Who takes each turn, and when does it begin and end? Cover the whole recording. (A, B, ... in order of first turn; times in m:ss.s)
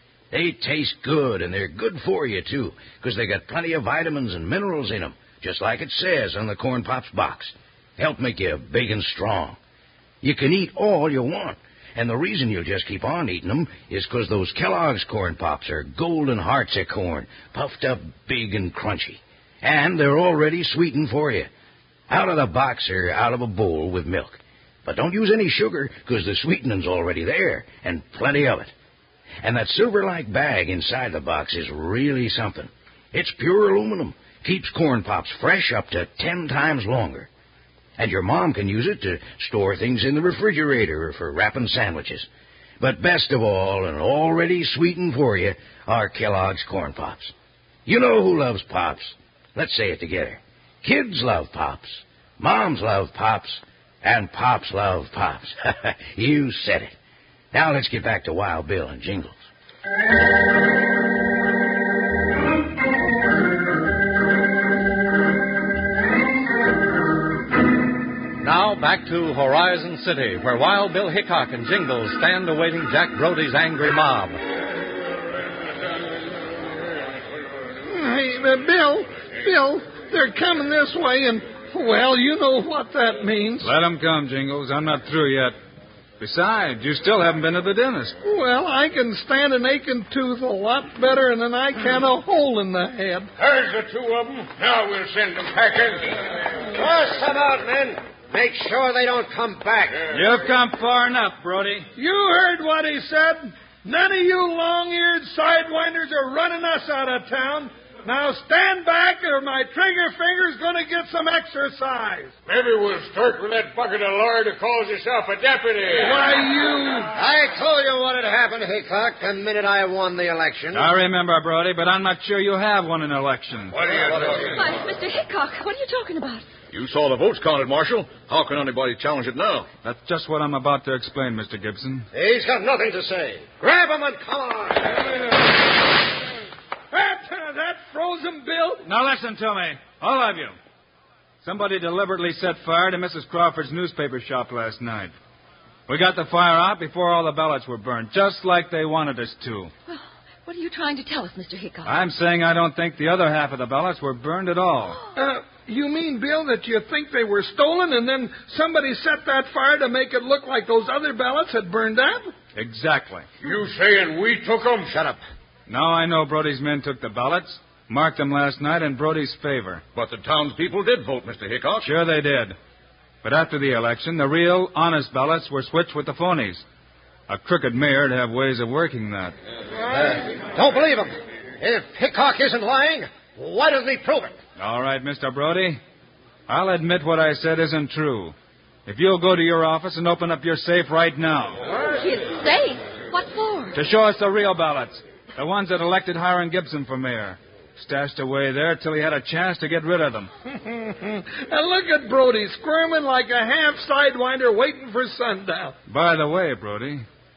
0:00.3-0:09.6 A
0:10.2-0:21.5 A
0:22.1-0:28.7 A
0:29.4-0:37.3 A
0:38.0-0:42.3 A
0:42.8-0:47.3 A
0:47.9-0:56.9 A
0:57.5-0:59.4 A
1:08.4-1:14.4 B
1:17.9-1:23.7 C
1:23.6-1:25.6 D
1:26.2-1:28.2 D
1:28.2-1:33.3 C
1:33.4-1:36.1 E
1:36.7-1:40.0 F
1:40.1-1:41.9 D
1:42.0-1:52.3 C
1:52.5-1:56.3 E
1:56.0-1:57.1 C
1:57.2-2:00.9 F
2:00.7-2:03.8 D
2:03.8-2:04.6 E
2:03.8-2:04.4 F
2:04.4-2:06.5 G
2:06.7-2:09.7 H
2:09.8-2:12.1 D
2:12.1-2:15.0 F
2:16.9-2:18.9 C
2:18.8-2:20.6 D
2:21.4-2:25.1 D
2:25.9-2:29.7 D
2:29.9-2:32.0 G
2:31.8-2:35.0 D
2:35.2-2:42.3 C
2:42.6-2:43.3 D
2:43.4-2:44.9 E
2:44.9-2:45.2 F
2:45.7-2:49.8 D
2:50.0-2:51.9 H
2:51.8-2:52.6 D
2:53.2-2:56.6 D
2:57.3-2:59.4 D
2:59.8-3:04.4 F
3:04.6-3:05.8 D
3:06.5-3:08.4 D
3:08.9-3:11.6 D
3:11.8-3:13.8 G
3:13.8-3:20.3 D
3:20.5-3:25.8 C
3:25.9-3:27.0 D